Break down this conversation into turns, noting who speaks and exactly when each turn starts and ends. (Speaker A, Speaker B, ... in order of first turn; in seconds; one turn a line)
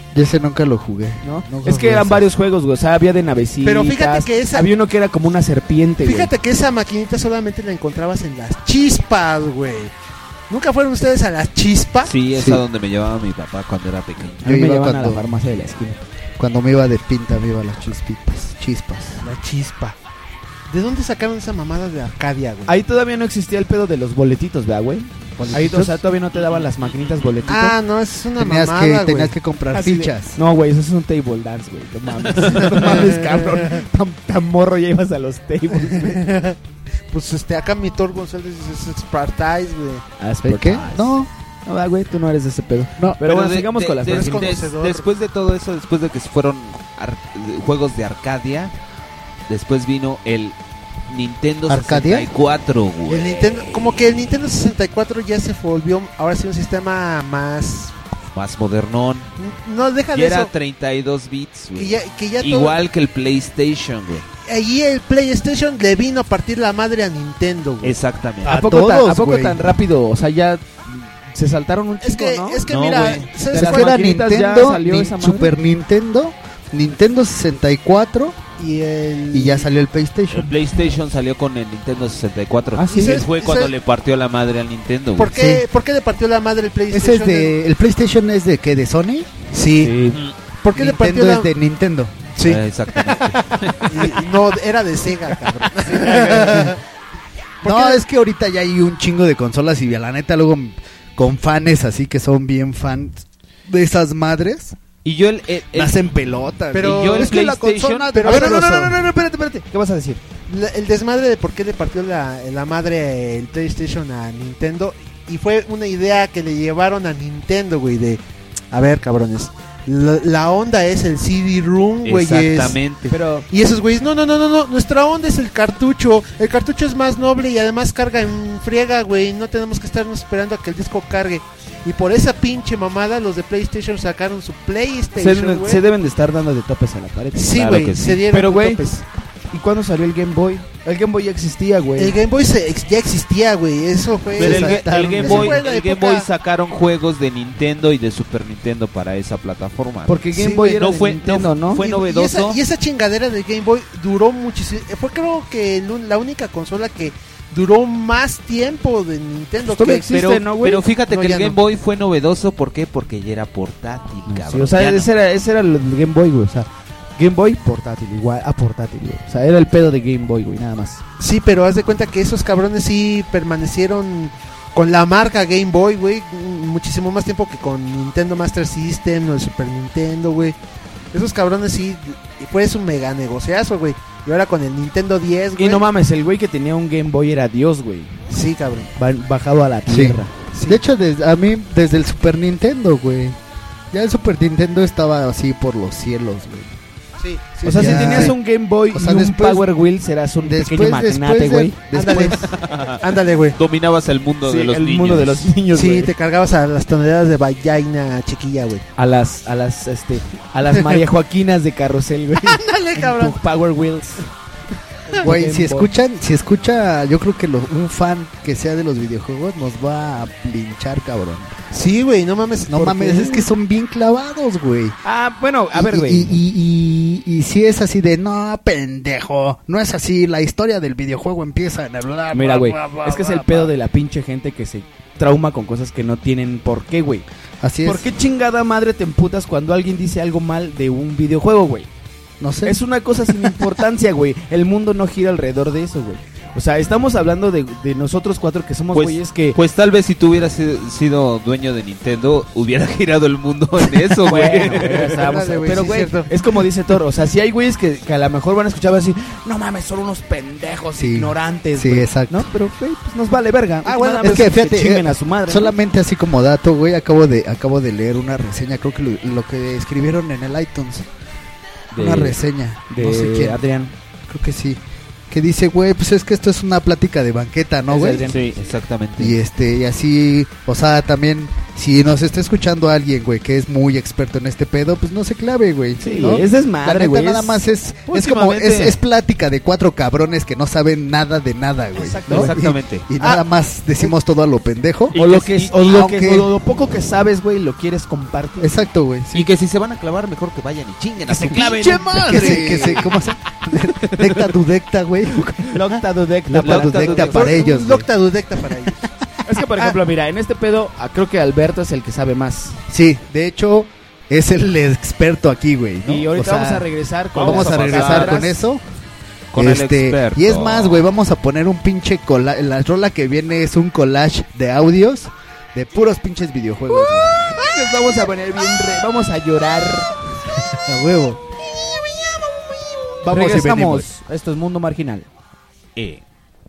Speaker A: 0.1-2.3
Speaker B: 1.2-6.3
Speaker C: 3.6-4.7
Speaker C: 6.0-9.9
Speaker C: 10.5-12.1
Speaker D: 12.1-14.5
Speaker A: 12.3-12.6
Speaker A: 14.4-15.3
Speaker B: 14.4-16.0
Speaker A: 16.4-19.2
Speaker C: 19.2-20.0
Speaker C: 20.7-22.7
Speaker B: 22.7-27.8
Speaker D: 25.4-25.8
Speaker A: 25.6-25.9
Speaker D: 26.3-27.3
Speaker C: 27.5-29.3
Speaker A: 28.4-30.4
Speaker B: 29.7-36.2
Speaker D: 32.4-32.8
Speaker C: 32.7-33.8
Speaker C: 35.8-36.6
Speaker C: 37.1-40.0
Speaker B: 40.2-44.6
Speaker A: 40.4-41.3
Speaker D: 43.2-48.7
Speaker C: 44.0-45.1
Speaker D: 49.5-50.5
Speaker D: 51.1-54.0
Speaker A: 51.7-52.3
Speaker C: 53.1-57.9
Speaker D: 58.3-59.3
Speaker C: 59.4-60.5
Speaker D: 60.1-64.2
Speaker C: 61.8-62.8
Speaker C: 64.5-68.0
Speaker D: 67.8-68.5
Speaker A: 68.4-69.7
Speaker B: 68.5-75.5
Speaker C: 72.0-73.9
Speaker D: 72.7-73.3
Speaker A: 73.5-78.4
Speaker C: 78.6-79.7
Speaker A: 79.3-80.5
Speaker D: 80.3-85.3
Speaker B: 82.8-83.2
Speaker C: 82.9-83.7
Speaker C: 85.2-87.5
Speaker A: 85.3-85.7
Speaker A: 86.9-89.3
Speaker C: 89.5-90.0
Speaker B: 89.8-90.2
Speaker C: 90.6-91.5
Speaker A: 90.7-92.2
Speaker C: 92.4-93.3
Speaker D: 92.4-94.1
Speaker C: 93.8-96.8
Speaker A: 96.2-96.8
Speaker C: 97.6-98.0
Speaker A: 97.6-104.8
Speaker D: 105.0-106.1
Speaker A: 105.7-109.0
Speaker C: 106.7-107.4
Speaker D: 106.8-108.2
Speaker C: 108.1-108.9
Speaker B: 108.2-110.2
Speaker C: 110.5-122.8
Speaker D: 122.0-123.1
Speaker B: 123.1-123.5
Speaker C: 123.5-135.8
Speaker B: 135.2-137.5
Speaker C: 137.3-139.0
Speaker D: 137.5-138.2
Speaker B: 138.3-138.8
Speaker B: 139.5-142.2
Speaker C: 142.0-146.3
Speaker D: 144.3-150.2
Speaker A: 144.4-145.6
Speaker B: 150.1-151.8
Speaker C: 150.3-150.8
Speaker D: 150.8-152.6
Speaker C: 151.8-160.5
Speaker B: 159.6-160.8
Speaker D: 160.6-165.1
Speaker C: 161.0-161.6
Speaker B: 164.3-171.0
Speaker C: 171.2-180.6
Speaker C: 181.1-185.9
Speaker B: 185.6-188.2
Speaker C: 188.3-188.9
Speaker B: 189.0-190.4
Speaker A: 189.9-193.4
Speaker C: 190.5-190.8
Speaker A: 193.9-196.8
Speaker C: 197.2-198.3
Speaker B: 197.6-201.8
Speaker A: 197.7-198.4
Speaker A: 198.9-199.7
Speaker A: 200.4-202.5
Speaker C: 201.9-203.6
Speaker D: 202.6-203.0
Speaker D: 203.6-205.5
Speaker B: 204.4-206.1
Speaker C: 205.7-208.8
Speaker B: 209.0-214.2
Speaker C: 212.5-213.4
Speaker B: 215.1-215.9
Speaker A: 215.2-221.5
Speaker C: 221.7-223.5
Speaker A: 222.7-225.0
Speaker B: 225.0-226.3
Speaker A: 225.7-233.7
Speaker B: 232.3-237.2
Speaker A: 237.6-238.1
Speaker B: 237.8-241.9
Speaker A: 242.4-242.8
Speaker B: 242.7-249.6
Speaker D: 248.9-255.1
Speaker B: 254.2-265.7
Speaker C: 255.1-256.3
Speaker A: 261.0-262.5
Speaker C: 263.9-264.6
Speaker A: 264.2-271.1
Speaker B: 271.9-273.9
Speaker A: 271.9-273.6
Speaker A: 274.3-278.3
Speaker B: 277.9-278.4
Speaker D: 278.3-279.4
Speaker A: 279.2-296.5
Speaker B: 286.0-289.0
Speaker B: 292.0-292.5
Speaker D: 292.3-293.1
Speaker B: 295.1-298.8
Speaker D: 295.1-295.7
Speaker A: 298.6-299.5
Speaker D: 299.3-303.0
Speaker B: 301.3-303.1
Speaker A: 302.1-308.1
Speaker B: 305.6-307.7
Speaker D: 306.6-307.5
Speaker C: 307.2-309.0
Speaker B: 309.5-312.8
Speaker A: 312.9-318.8
Speaker B: 316.1-318.6
Speaker D: 317.4-318.4
Speaker D: 319.5-321.1
Speaker A: 319.5-327.4
Speaker B: 327.4-330.1
Speaker A: 330.7-331.4
Speaker A: 333.2-334.1
Speaker B: 333.2-335.3
Speaker D: 336.0-336.2